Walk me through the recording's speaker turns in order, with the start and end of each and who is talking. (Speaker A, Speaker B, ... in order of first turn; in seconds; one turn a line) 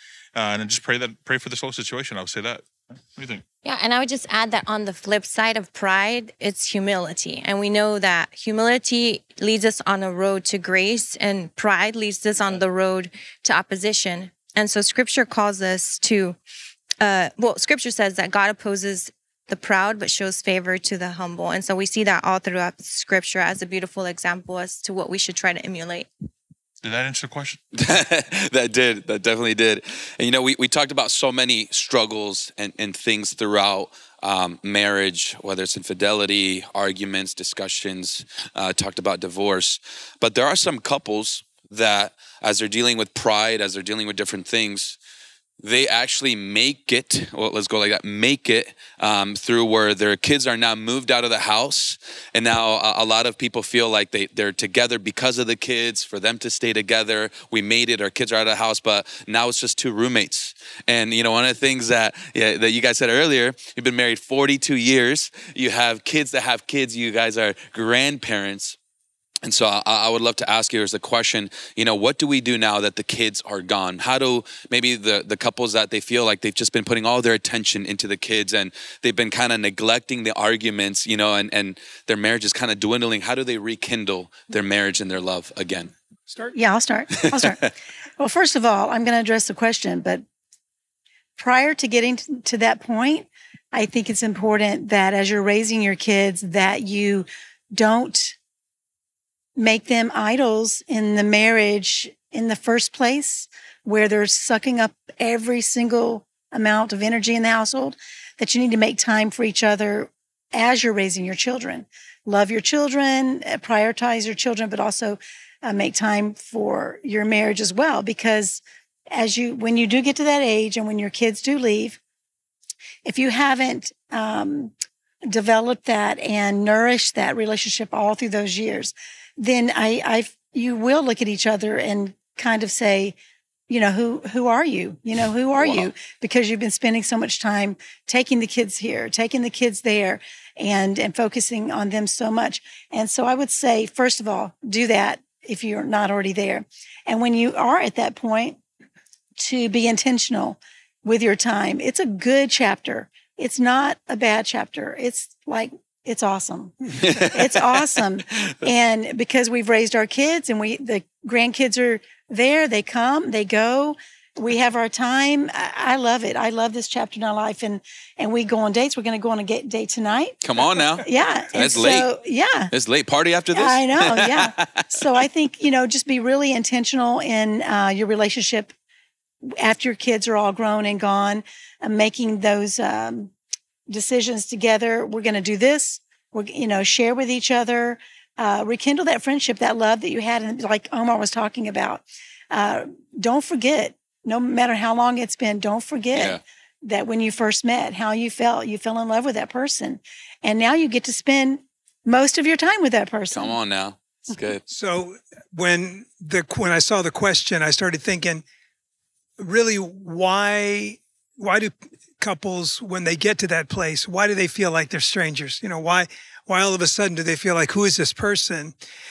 Speaker A: 0.3-3.4
Speaker B: 3.6-16.4
Speaker B: 17.0-26.1
Speaker A: 26.8-27.6
Speaker C: 27.7-45.0
Speaker C: 45.6-68.8
Speaker C: 69.4-85.9
Speaker D: 86.4-90.2
Speaker D: 91.4-98.3
Speaker D: 99.6-122.0
Speaker D: 123.0-124.7
Speaker D: 125.3-133.1
Speaker D: 133.7-148.6
Speaker C: 135.5-135.9
Speaker D: 149.4-170.4
Speaker C: 157.0-158.0
Speaker C: 170.4-172.1
Speaker D: 171.0-172.7
Speaker C: 172.7-175.2
Speaker D: 173.5-178.7
Speaker D: 179.6-183.3
Speaker D: 183.9-203.6
Speaker C: 196.1-196.4
Speaker C: 203.3-204.6
Speaker E: 204.7-208.4
Speaker E: 209.4-218.7